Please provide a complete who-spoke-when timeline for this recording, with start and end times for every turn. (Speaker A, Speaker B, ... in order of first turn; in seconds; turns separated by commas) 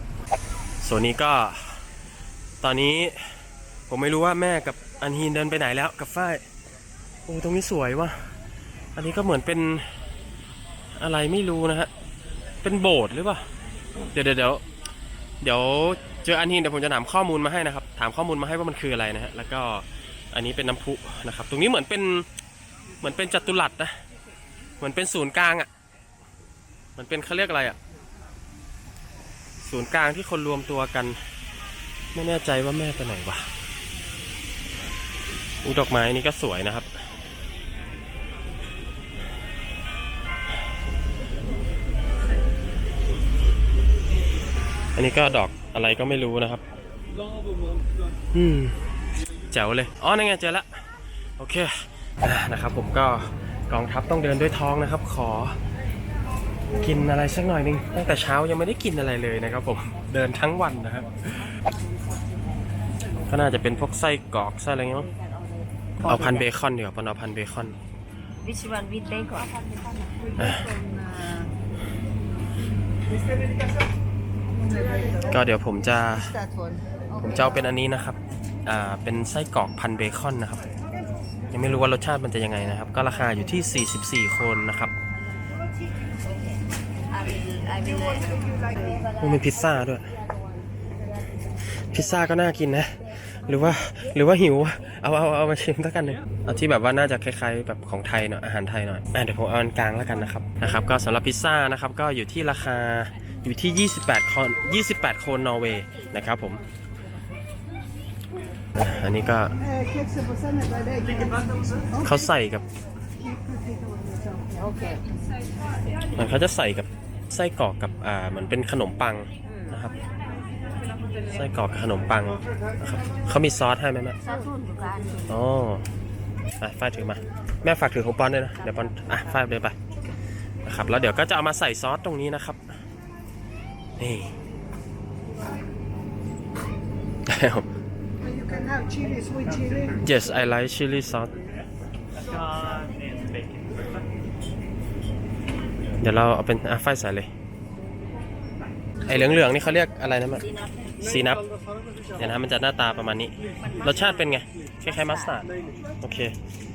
Speaker A: 0.8-1.8, Speaker A: 2.6-3.3, Speaker A: 3.9-6.4, Speaker A: 7.3-8.2, Speaker A: 9.0-9.9, Speaker A: 11.0-11.9, Speaker A: 12.6-13.4, Speaker A: 14.1-14.6, Speaker A: 15.4-22.3, Speaker A: 23.0-23.9, Speaker A: 24.8-25.7, Speaker A: 27.0-27.8, Speaker A: 29.6-31.2, Speaker A: 32.1-33.5, Speaker A: 35.6-37.0, Speaker A: 45.0-46.6, Speaker A: 48.3-48.8, Speaker A: 49.5-50.7, Speaker A: 51.4-55.6, Speaker A: 56.8-61.4, Speaker A: 63.3-65.1, Speaker B: 65.1-66.3, Speaker A: 66.0-67.8, Speaker B: 68.4-69.7, Speaker A: 70.4-70.7, Speaker C: 70.4-71.5, Speaker A: 75.3-76.3, Speaker C: 76.3-77.0, Speaker A: 77.2-80.7, Speaker A: 81.5-84.9, Speaker B: 86.4-89.5, Speaker A: 89.2-90.1, Speaker A: 91.9-106.6, Speaker A: 108.8-109.5, Speaker C: 109.6-112.0, Speaker A: 112.0-112.7, Speaker C: 113.5-114.3, Speaker B: 114.5-115.0, Speaker A: 116.2-120.0, Speaker A: 121.3-124.2, Speaker B: 124.2-125.3, Speaker A: 125.3-125.8, Speaker A: 126.6-129.8, Speaker B: 128.6-129.1, Speaker A: 130.7-132.6, Speaker A: 134.0-134.3, Speaker A: 137.3-137.7, Speaker C: 138.2-140.0, Speaker A: 140.0-141.3, Speaker A: 146.0-147.3, Speaker A: 149.0-151.4, Speaker B: 150.4-150.7, Speaker A: 152.2-155.5, Speaker A: 156.0-156.3